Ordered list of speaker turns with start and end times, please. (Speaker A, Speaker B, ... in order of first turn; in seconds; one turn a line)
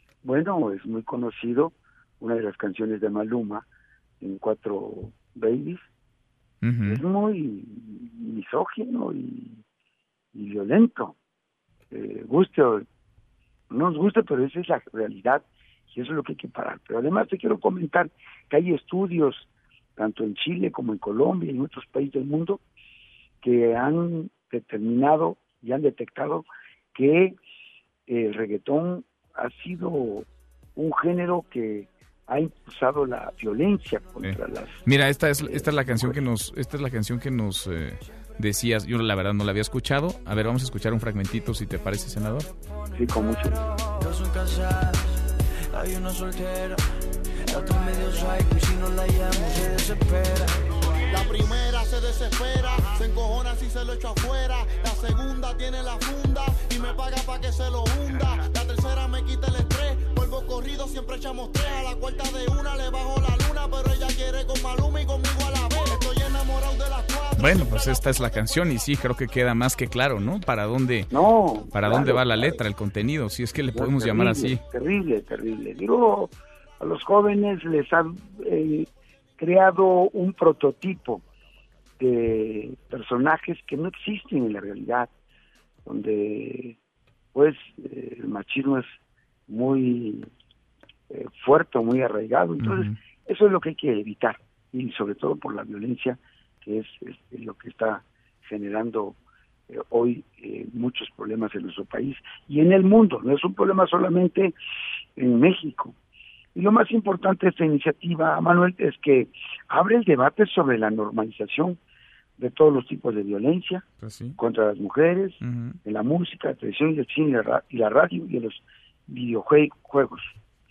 Speaker A: 0.2-3.6
Speaker A: 4.2-5.8
Speaker B: 6.6-7.0
Speaker A: 6.8-9.6
Speaker A: 10.3-11.2
Speaker A: 11.9-12.8
Speaker A: 13.7-22.6
Speaker A: 23.4-27.4
Speaker A: 28.1-34.8
Speaker B: 34.2-42.5
Speaker A: 35.4-36.2
Speaker A: 42.9-43.6
Speaker C: 44.0-45.2
Speaker C: 45.7-46.8
Speaker C: 47.5-50.6
Speaker D: 51.1-67.6
Speaker B: 67.4-71.1
Speaker A: 71.1-72.5
Speaker B: 71.7-74.6
Speaker A: 73.7-81.2
Speaker A: 82.0-85.1
Speaker A: 85.8-86.8
Speaker A: 87.3-88.9
Speaker A: 89.5-90.3
Speaker A: 91.1-99.2
Speaker B: 92.6-93.0
Speaker A: 99.7-104.5
Speaker A: 105.2-105.9
Speaker A: 106.5-111.8
Speaker A: 112.4-113.8
Speaker B: 114.0-114.4
Speaker A: 114.4-120.3
Speaker B: 115.4-115.8